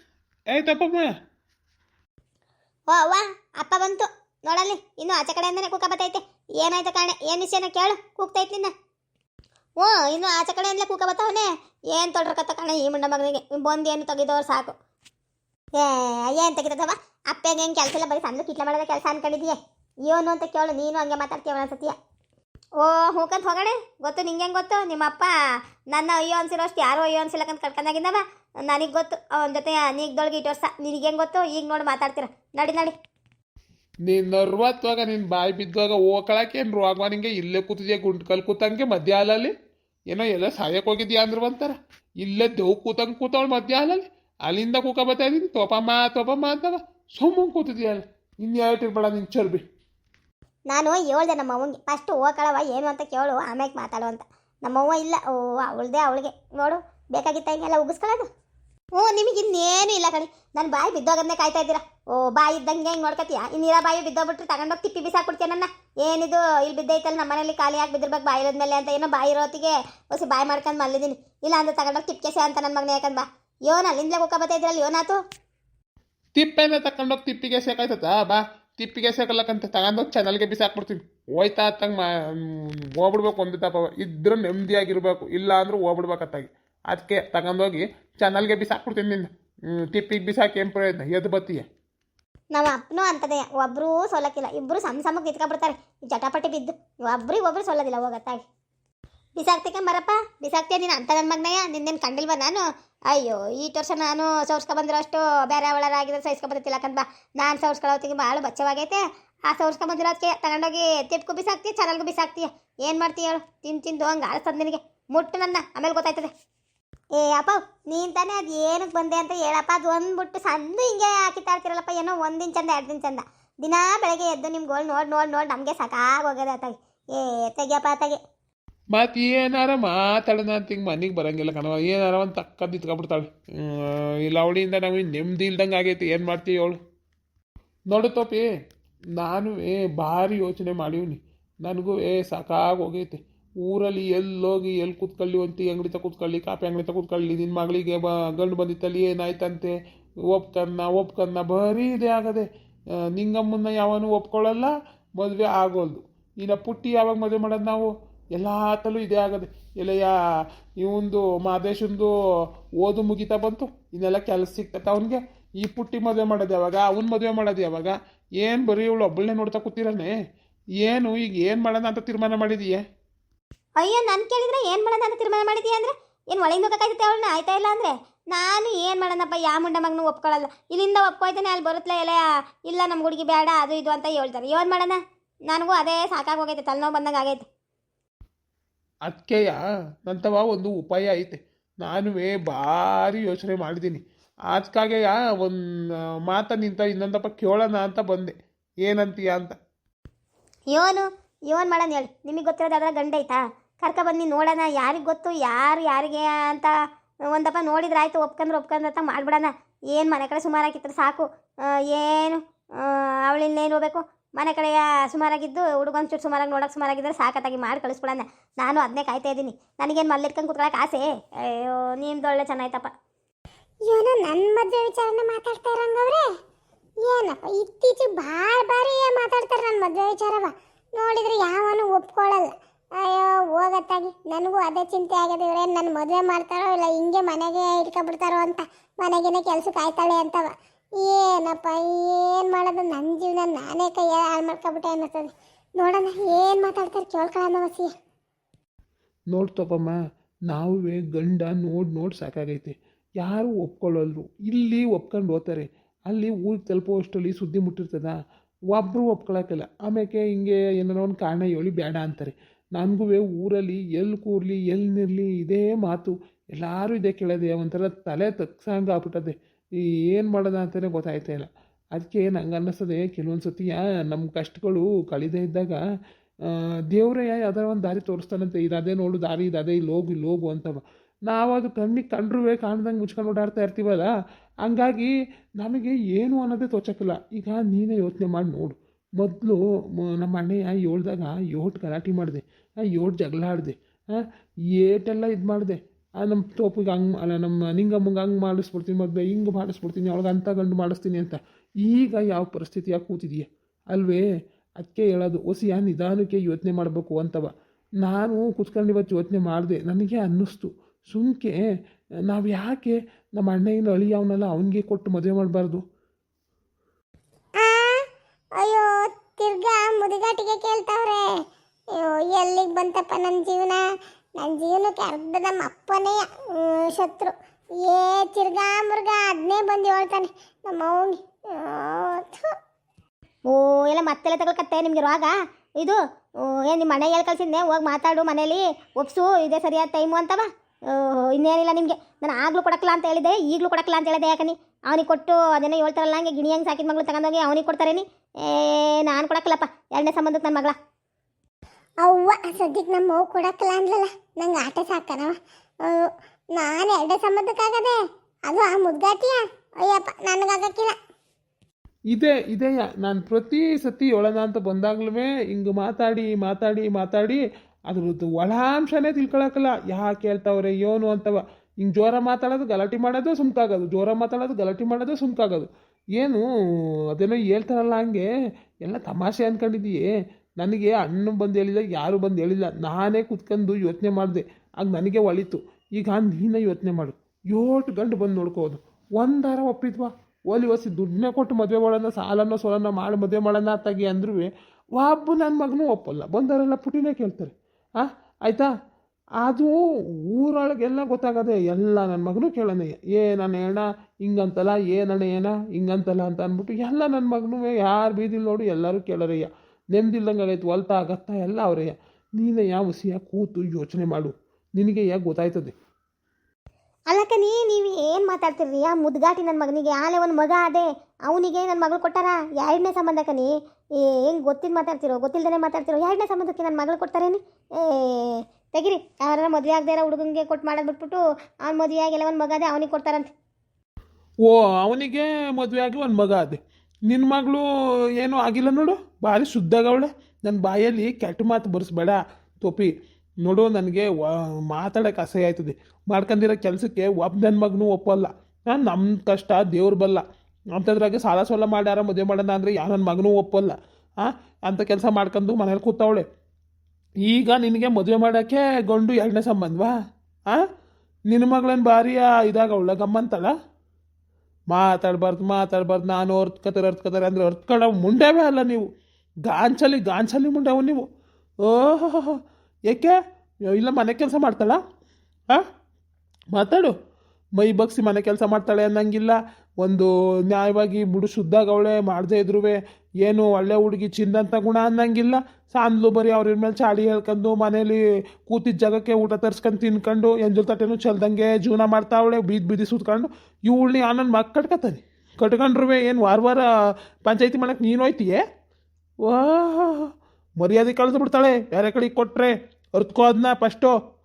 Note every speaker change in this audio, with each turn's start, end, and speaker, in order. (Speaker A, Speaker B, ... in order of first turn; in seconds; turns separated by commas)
Speaker A: 0.5-1.1, Speaker B: 2.9-8.7, Speaker B: 9.8-14.8, Speaker B: 15.8-21.9, Speaker B: 22.8-25.3, Speaker B: 25.9-33.0, Speaker A: 34.1-39.5, Speaker A: 40.1-49.6, Speaker B: 50.7-58.3, Speaker B: 59.0-75.2, Speaker A: 76.3-91.7, Speaker B: 92.5-98.4, Speaker B: 99.4-116.3, Speaker B: 117.2-128.2, Speaker A: 128.9-136.8, Speaker A: 137.9-138.5, Speaker A: 139.2-149.8, Speaker A: 150.3-152.5, Speaker A: 153.2-160.1, Speaker A: 160.8-162.1, Speaker A: 162.8-170.2, Speaker A: 170.8-172.8, Speaker B: 173.8-187.5, Speaker A: 189.1-195.6, Speaker A: 196.3-199.6, Speaker B: 200.7-206.7, Speaker B: 207.3-222.9, Speaker C: 223.9-226.2, Speaker C: 227.0-247.9, Speaker A: 249.3-250.0, Speaker A: 250.5-258.2, Speaker A: 258.7-269.4, Speaker A: 270.1-275.8, Speaker A: 276.5-284.1, Speaker A: 284.6-294.2, Speaker A: 294.8-304.3, Speaker A: 304.8-307.5, Speaker A: 308.0-311.6, Speaker A: 312.3-315.8, Speaker C: 317.6-318.0, Speaker C: 318.6-321.2, Speaker C: 321.9-323.8, Speaker C: 324.4-332.5, Speaker B: 333.5-350.8, Speaker C: 352.0-361.0, Speaker A: 362.1-376.4, Speaker A: 377.1-378.3, Speaker A: 378.9-380.1, Speaker A: 380.6-398.7, Speaker A: 399.4-399.8, Speaker A: 400.3-415.7, Speaker B: 417.1-423.5, Speaker B: 424.0-433.3, Speaker A: 434.4-437.6, Speaker A: 438.2-442.9, Speaker A: 443.4-444.1, Speaker A: 444.7-450.2, Speaker A: 450.8-456.2, Speaker A: 457.2-459.9, Speaker A: 461.3-463.5, Speaker A: 464.7-468.9, Speaker A: 469.5-471.0, Speaker A: 471.6-472.4, Speaker A: 472.9-473.1, Speaker A: 473.7-474.8, Speaker A: 476.5-476.9, Speaker A: 477.6-496.7, Speaker A: 497.2-498.4, Speaker A: 499.2-500.1, Speaker A: 500.6-503.9